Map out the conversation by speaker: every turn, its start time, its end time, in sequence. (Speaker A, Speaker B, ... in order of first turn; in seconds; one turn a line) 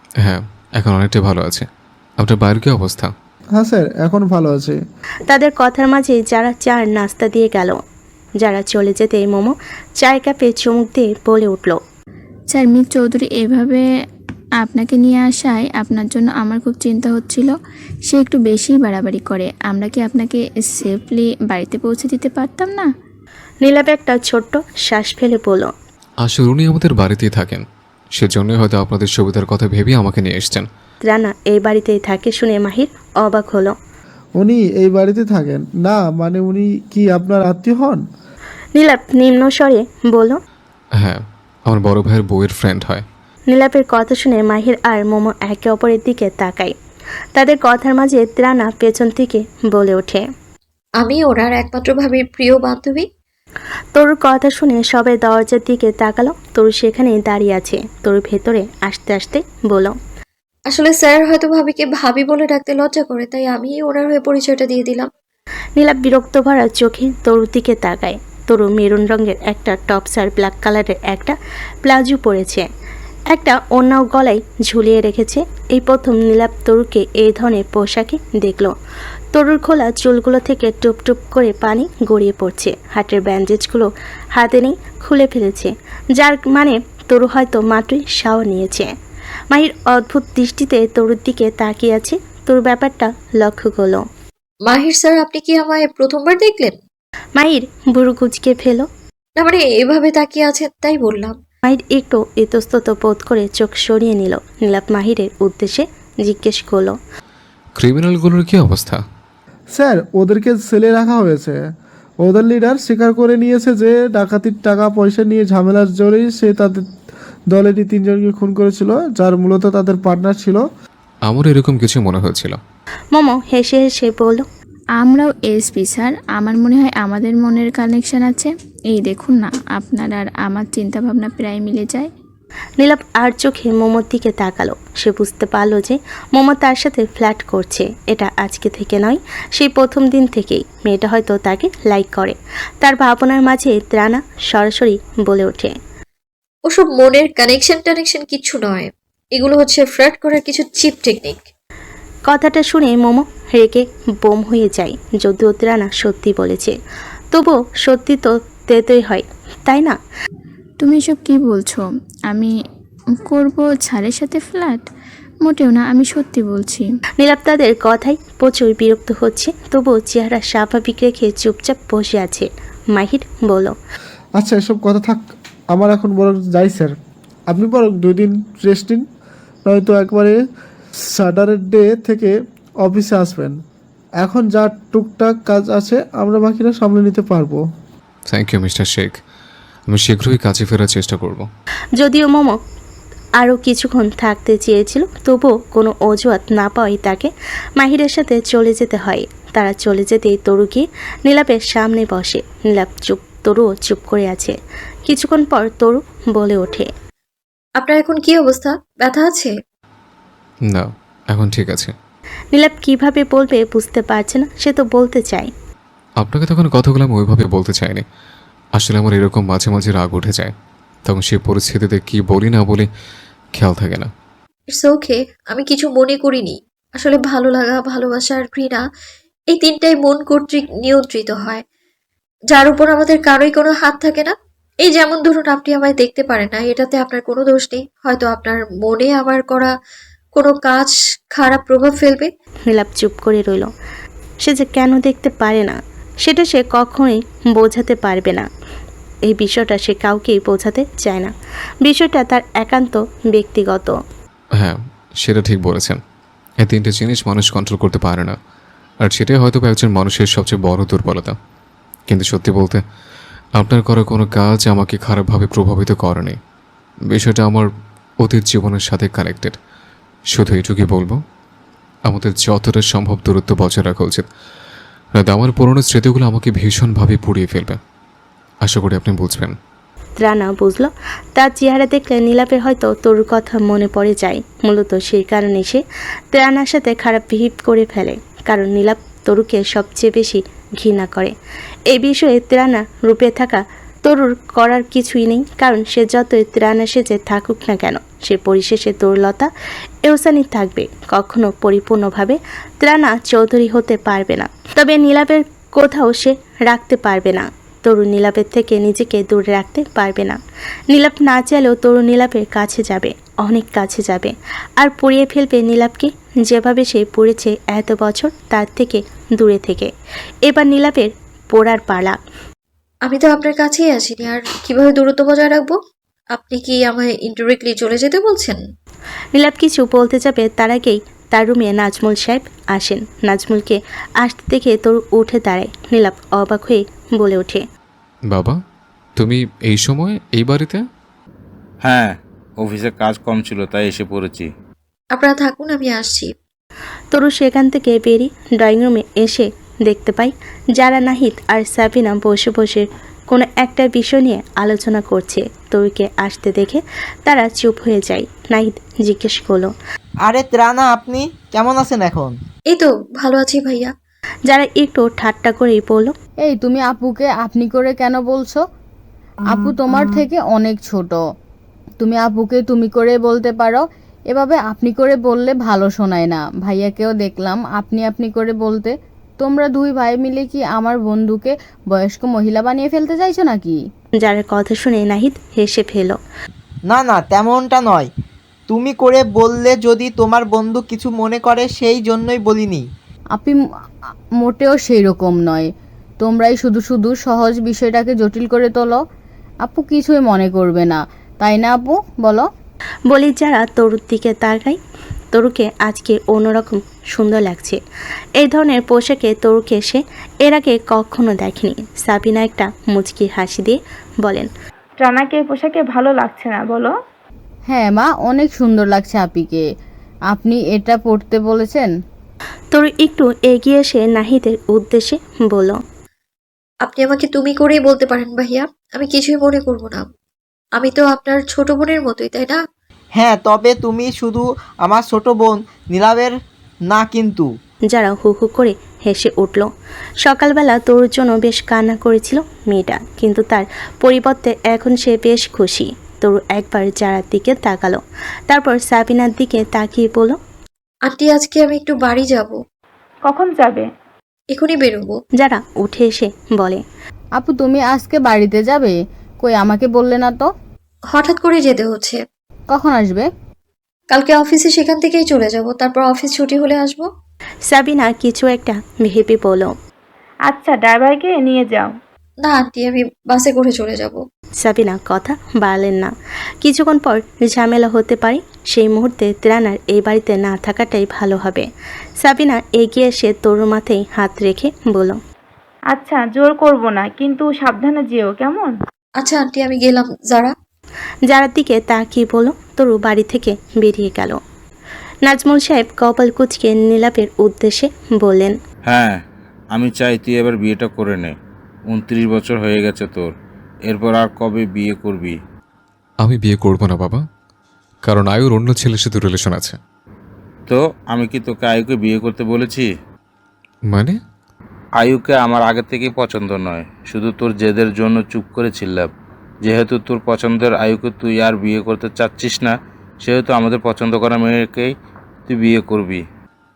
Speaker A: 0.2-1.7
Speaker A: 2.2-3.1
Speaker B: 3.6-4.8
Speaker C: 5.3-7.8
Speaker C: 8.4-11.8
Speaker D: 12.5-13.8
Speaker D: 14.6-17.5
Speaker D: 18.1-22.9
Speaker C: 23.6-25.7
Speaker A: 26.2-27.6
Speaker A: 28.2-30.7
Speaker C: 31.1-33.7
Speaker B: 34.4-38.0
Speaker C: 38.8-40.4
Speaker A: 41.0-43.0
Speaker C: 43.5-46.8
Speaker C: 47.4-50.2
Speaker E: 51.0-53.1
Speaker C: 54.0-60.0
Speaker E: 60.7-65.1
Speaker C: 65.8-72.7
Speaker C: 73.3-78.7
Speaker C: 79.3-88.9
Speaker C: 89.5-94.0
Speaker E: 94.7-96.8
Speaker C: 97.4-98.9
Speaker E: 99.4-101.4
Speaker C: 101.6-107.0
Speaker A: 107.8-109.0
Speaker B: 109.7-111.6
Speaker B: 112.2-116.9
Speaker B: 117.5-120.6
Speaker A: 121.3-122.6
Speaker C: 123.1-124.5
Speaker D: 125.0-132.1
Speaker C: 132.8-145.7
Speaker E: 146.7-151.4
Speaker C: 152.3-156.8
Speaker C: 157.3-160.0
Speaker D: 160.8-162.5
Speaker D: 163.2-164.9
Speaker D: 165.4-166.8
Speaker C: 167.2-173.8
Speaker B: 174.4-176.9
Speaker B: 177.5-179.1
Speaker B: 179.7-180.4
Speaker B: 181.2-183.6
Speaker B: 184.2-187.6
Speaker A: 188.3-189.2
Speaker A: 189.9-191.5
Speaker C: 192.0-192.6
Speaker C: 193.4-204.6
Speaker C: 205.1-206.9
Speaker E: 207.8-209.5
Speaker A: 210.7-211.9
Speaker C: 212.5-215.5
Speaker A: 216.2-218.0
Speaker A: 218.8-220.5
Speaker A: 221.1-222.9
Speaker A: 223.6-224.1
Speaker E: 224.7-228.8
Speaker E: 229.5-231.6
Speaker E: 232.5-239.7
Speaker E: 240.3-242.3
Speaker C: 242.7-243.7
Speaker C: 244.4-248.5
Speaker C: 249.3-251.3
Speaker C: 251.8-253.9
Speaker A: 254.6-256.0
Speaker A: 256.6-258.4
Speaker A: 259.0-261.4
Speaker A: 262.1-262.8
Speaker A: 263.6-266.4
Speaker A: 267.1-267.7
Speaker A: 268.2-269.6
Speaker A: 270.3-271.2
Speaker A: 272.1-274.3
Speaker A: 275.2-277.8
Speaker A: 278.6-279.6
Speaker C: 280.2-291.3
Speaker C: 291.9-299.5
Speaker C: 300.1-319.9
Speaker C: 320.4-322.2
Speaker E: 323.1-325.8
Speaker E: 326.3-328.6
Speaker C: 329.3-337.6
Speaker A: 338.3-338.6
Speaker A: 339.2-340.8
Speaker F: 341.9-344.5
Speaker E: 345.1-346.3
Speaker C: 347.1-359.7
Speaker G: 360.2-362.4
Speaker E: 362.7-363.9
Speaker C: 364.5-366.1
Speaker H: 366.4-368.6
Speaker H: 369.5-371.2
Speaker H: 372.0-383.8
Speaker C: 384.2-386.2
Speaker G: 386.9-388.1
Speaker G: 388.7-392.9
Speaker H: 393.4-393.6
Speaker H: 394.4-395.7
Speaker H: 396.2-399.0
Speaker H: 399.6-402.5
Speaker C: 403.1-404.8
Speaker C: 405.3-407.8
Speaker C: 408.4-414.5
Speaker I: 415.0-416.9
Speaker H: 417.7-419.7
Speaker H: 420.3-421.9
Speaker C: 422.7-425.8
Speaker E: 426.9-430.1
Speaker E: 430.8-432.6
Speaker G: 433.2-436.4
Speaker G: 436.9-437.5
Speaker C: 437.9-439.7
Speaker C: 440.2-450.4
Speaker E: 451.1-452.6
Speaker I: 453.3-453.9
Speaker E: 454.5-455.2
Speaker C: 455.4-456.8
Speaker H: 457.4-460.5
Speaker E: 461.1-462.2
Speaker H: 462.7-463.3
Speaker E: 464.1-467.1
Speaker C: 467.7-469.7
Speaker I: 470.5-471.9
Speaker E: 472.4-474.2
Speaker C: 474.6-481.7
Speaker C: 482.2-485.2
Speaker I: 485.9-488.7
Speaker E: 489.2-490.5
Speaker C: 491.3-494.4
Speaker C: 495.2-498.6
Speaker F: 498.9-499.2
Speaker F: 499.7-501.3
Speaker F: 501.9-503.3
Speaker F: 503.9-505.4
Speaker A: 506.2-507.2
Speaker A: 508.1-509.8
Speaker F: 510.7-512.9
Speaker A: 513.9-514.2
Speaker F: 515.0-519.1
Speaker F: 519.6-524.9
Speaker F: 525.5-526.2